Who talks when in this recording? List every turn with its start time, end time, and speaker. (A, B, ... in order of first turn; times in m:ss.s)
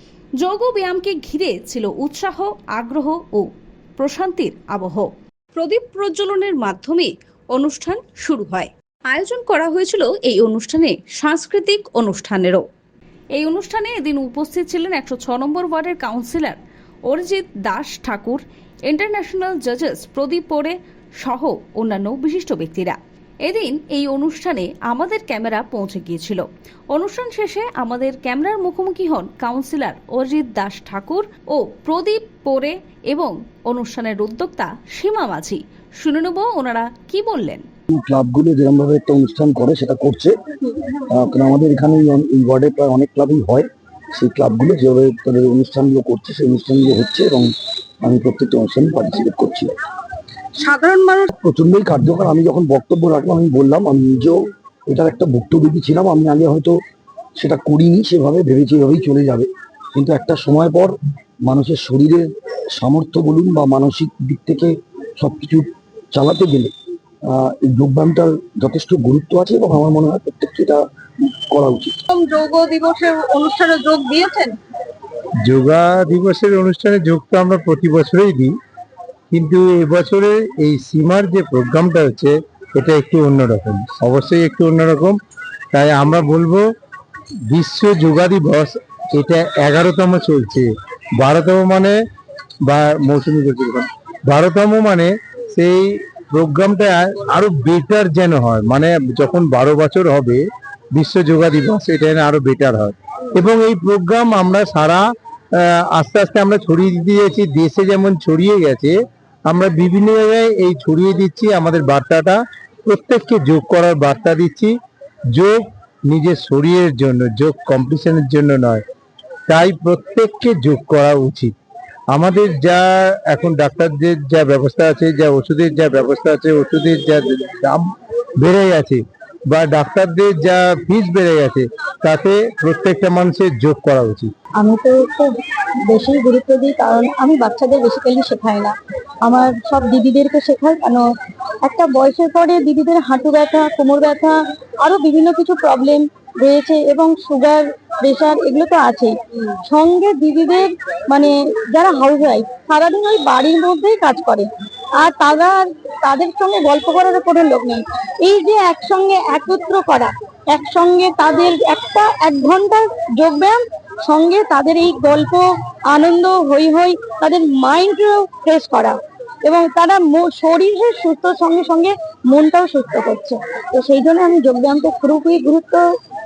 0:00.4-0:12.6 A
0:13.3-0:37.6 A
0:37.9-0:40.3 B
0:41.1-0:47.5 B
0:48.0-0:49.7 B
0:50.6-0:51.3 C
0:51.3-0:54.4 B
0:54.9-0:56.8 B
0:57.4-1:00.9 B
1:01.5-1:06.7 B
1:07.3-1:10.8 B
1:11.5-1:12.0 B
1:12.1-1:14.6 C
1:15.4-1:18.5 D
1:19.3-1:25.2 D
1:25.7-1:26.6 D
1:27.5-1:32.0 D
1:32.6-1:40.4 D
1:40.9-1:48.9 D
1:49.5-1:54.7 D
1:55.3-1:58.8 D
1:59.5-2:01.5 D
2:02.1-2:14.3 D
2:14.6-2:15.3 E
2:15.9-2:21.0 E
2:21.6-2:34.5 E
2:35.0-2:55.8 E